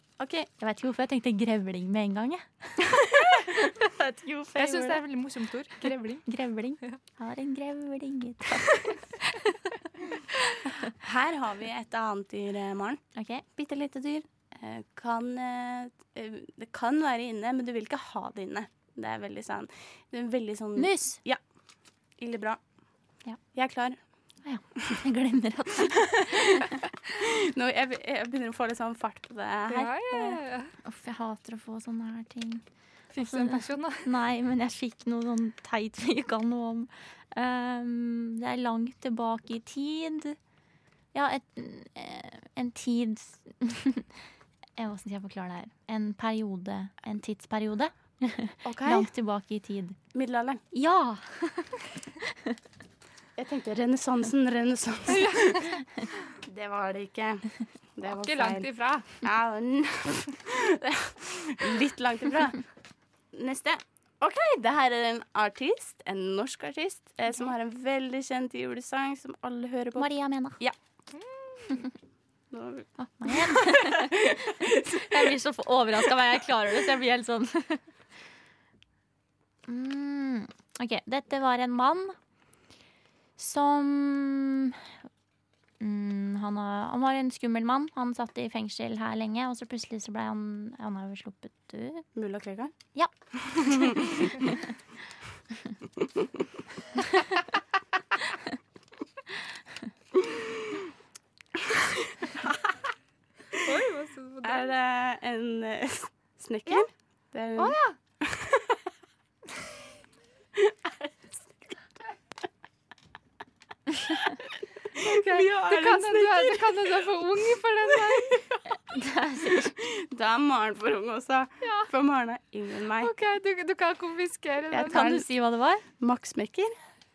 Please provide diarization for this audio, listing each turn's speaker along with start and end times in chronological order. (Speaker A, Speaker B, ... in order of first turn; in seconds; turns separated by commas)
Speaker A: 0.2-0.5, Speaker B: 0.5-5.0, Speaker C: 4.5-7.0, Speaker B: 6.3-9.5, Speaker A: 11.0-13.0, Speaker B: 13.2-13.4, Speaker A: 13.5-21.4, Speaker B: 20.8-21.2, Speaker A: 22.2-22.6, Speaker A: 23.5-24.0, Speaker B: 24.4-26.7, Speaker A: 25.9-26.6, Speaker A: 27.1-30.4, Speaker C: 29.7-30.7, Speaker B: 30.8-32.6, Speaker C: 33.1-34.0, Speaker B: 33.2-40.4, Speaker B: 41.1-44.1, Speaker B: 44.8-50.0, Speaker A: 48.6-49.1, Speaker A: 50.1-50.6, Speaker B: 50.7-51.8, Speaker A: 53.4-55.7, Speaker C: 55.1-55.8, Speaker A: 56.4-62.6, Speaker C: 58.0-59.1, Speaker A: 63.3-70.8, Speaker B: 70.0-70.6, Speaker C: 71.1-71.9, Speaker A: 72.5-75.3, Speaker B: 73.0-74.2, Speaker B: 75.1-77.8, Speaker B: 79.7-82.2, Speaker B: 83.4-84.8, Speaker B: 85.8-92.0, Speaker A: 92.1-92.7, Speaker B: 92.9-94.5, Speaker A: 93.3-94.3, Speaker A: 96.0-96.3, Speaker A: 101.7-102.3, Speaker C: 103.5-104.7, Speaker A: 104.4-108.8, Speaker C: 107.6-108.0, Speaker A: 110.5-111.7, Speaker C: 115.0-118.5, Speaker A: 115.0-117.2, Speaker A: 117.8-118.8, Speaker B: 118.9-119.7, Speaker A: 119.5-123.1, Speaker C: 121.6-121.9, Speaker C: 123.0-125.1, Speaker A: 124.7-125.3, Speaker B: 124.9-125.8, Speaker A: 125.9-126.8